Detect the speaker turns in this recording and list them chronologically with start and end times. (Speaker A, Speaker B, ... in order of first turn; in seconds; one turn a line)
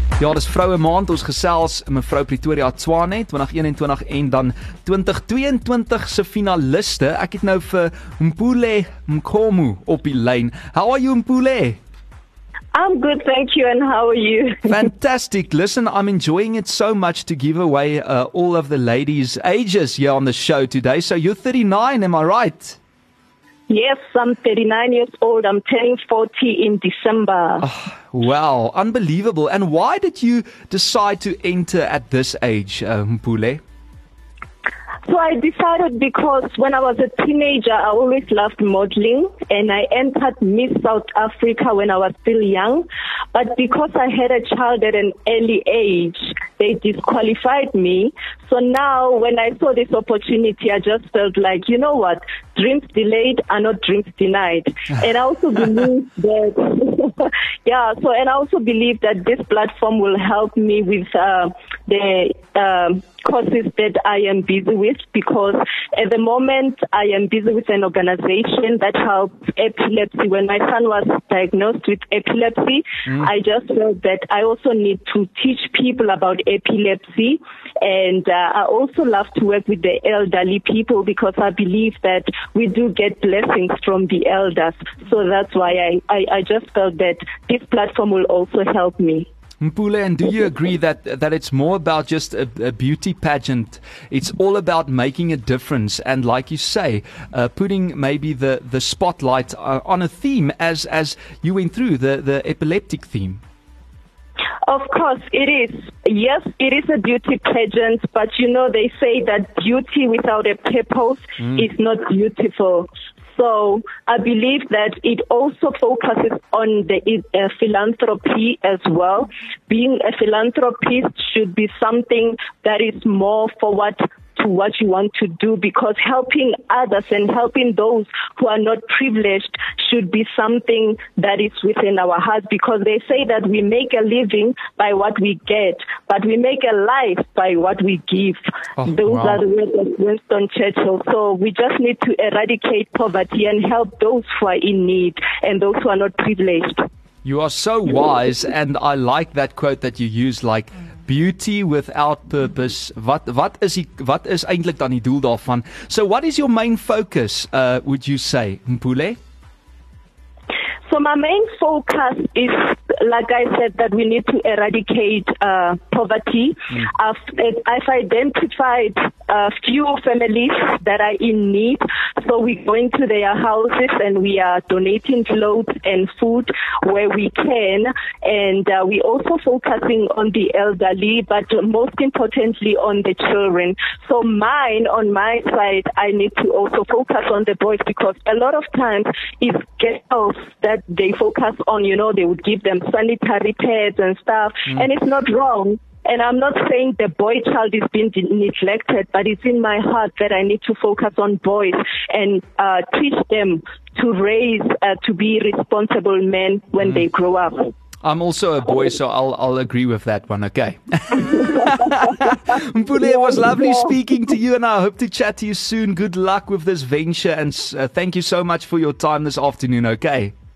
Speaker A: 0.2-11.8
Speaker B: 12.7-14.9
Speaker A: 14.6-22.8
Speaker B: 23.7-27.7
Speaker A: 27.6-33.6
Speaker B: 35.0-89.3
Speaker A: 89.6-103.4
Speaker B: 104.6-146.8
Speaker A: 111.4-111.6
Speaker A: 138.8-139.4
Speaker A: 147.2-159.2
Speaker B: 160.9-207.7
Speaker A: 208.0-220.3
Speaker B: 211.2-212.3
Speaker B: 213.0-214.0